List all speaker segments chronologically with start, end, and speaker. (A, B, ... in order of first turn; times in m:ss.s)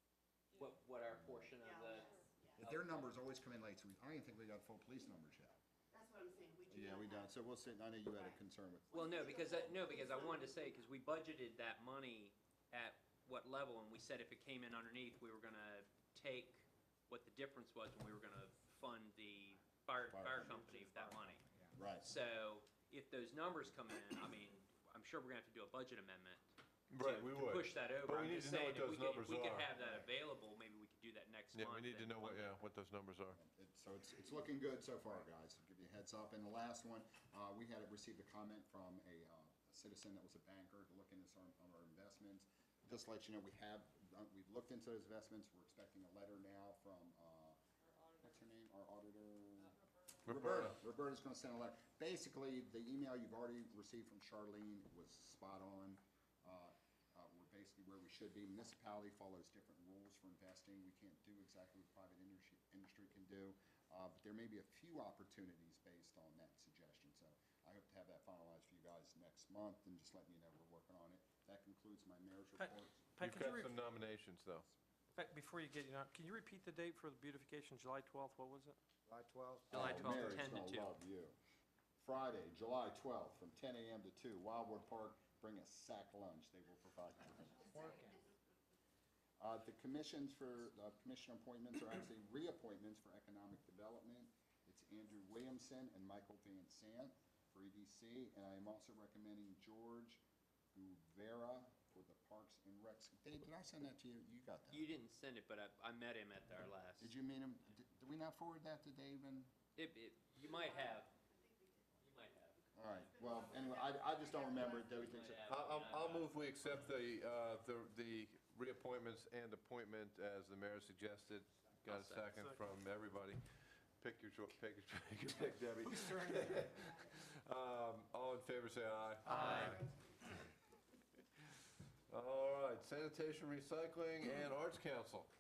0:00.5-0:02.1 A
0:01.1-0:01.5 B
0:01.6-0:02.7 C
0:02.6-0:05.6 B
0:05.9-0:07.3 C
0:06.7-0:09.6 B
0:08.1-0:08.4 C
0:08.9-0:10.7 C
0:08.9-0:21.4 A
0:20.1-0:20.8 B
0:20.8-0:21.8 D
0:21.7-0:22.1 B
0:22.0-0:32.6 A
0:26.9-0:29.7 E
0:29.8-0:30.1 B
0:31.5-0:33.4 E
0:33.3-0:47.6 B
0:48.2-1:13.2 B
0:50.2-0:50.8 E
1:12.6-1:13.8 F
1:13.2-1:14.7 E
1:15.1-1:18.8 F
1:19.1-1:19.9 D
1:19.7-1:20.9 A
1:19.7-1:21.4 B
1:22.0-1:28.0 B
1:27.7-1:28.0 D
1:29.4-1:40.2 B
1:40.7-1:44.9 B
1:44.7-1:47.1 A
1:47.0-1:49.5 B
1:49.8-1:51.1 A
1:50.4-1:55.2 C
1:52.0-1:52.5 A
1:52.7-1:55.4 B
1:54.9-1:57.0 A
1:55.4-2:03.4 E
2:01.8-2:02.3 A
2:02.3-2:02.6 F
2:04.0-2:09.8 E
2:06.0-2:06.8 D
2:06.8-2:07.1 C
2:09.2-2:10.1 C
2:09.3-2:09.7 D
2:09.3-2:09.8 A
2:12.1-2:15.3 E